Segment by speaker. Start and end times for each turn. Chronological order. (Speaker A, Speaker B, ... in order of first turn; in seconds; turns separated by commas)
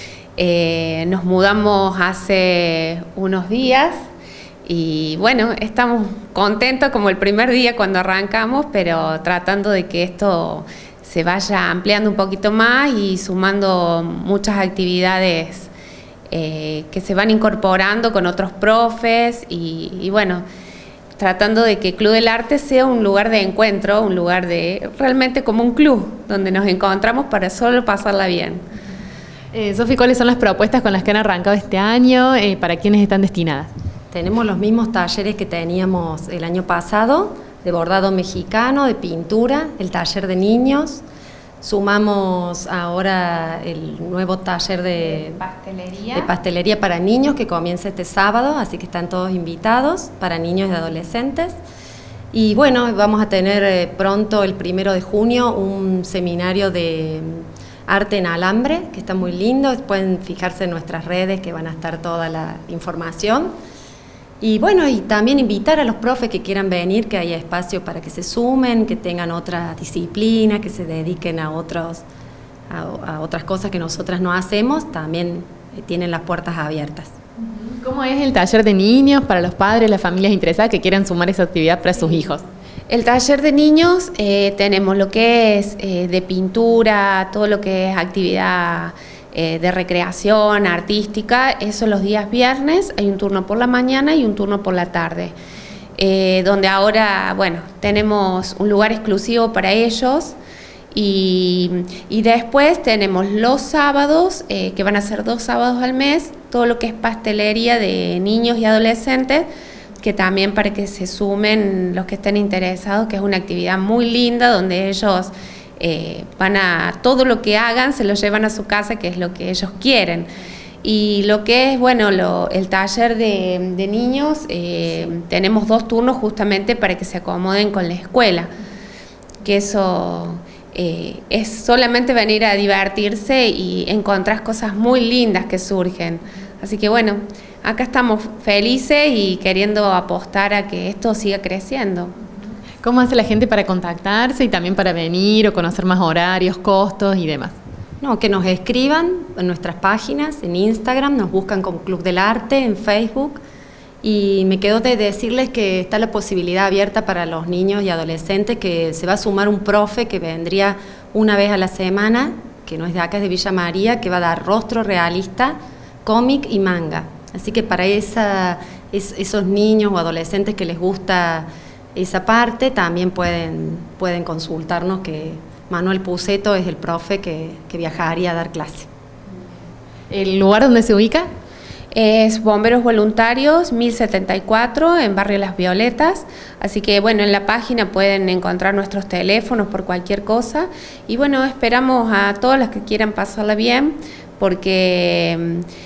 Speaker A: 0.4-4.0, Speaker A: 4.6-15.7, Speaker A: 16.3-20.4, Speaker A: 21.2-28.6, Speaker B: 29.5-33.7, Speaker C: 34.1-41.0, Speaker C: 41.6-45.4, Speaker A: 45.4-46.3, Speaker C: 46.1-51.6, Speaker C: 52.3-63.5, Speaker C: 64.4-72.0, Speaker C: 72.7-77.2, Speaker B: 77.8-82.4, Speaker A: 82.9-95.3, Speaker A: 96.0-100.4, Speaker A: 100.9-109.5, Speaker A: 110.0-120.3, Speaker A: 120.8-128.5, Speaker A: 129.4-142.1, Speaker B: 142.8-147.6, Speaker C: 148.0-153.4, Speaker C: 154.0-178.9, Speaker B: 180.1-181.3, Speaker A: 181.9-195.7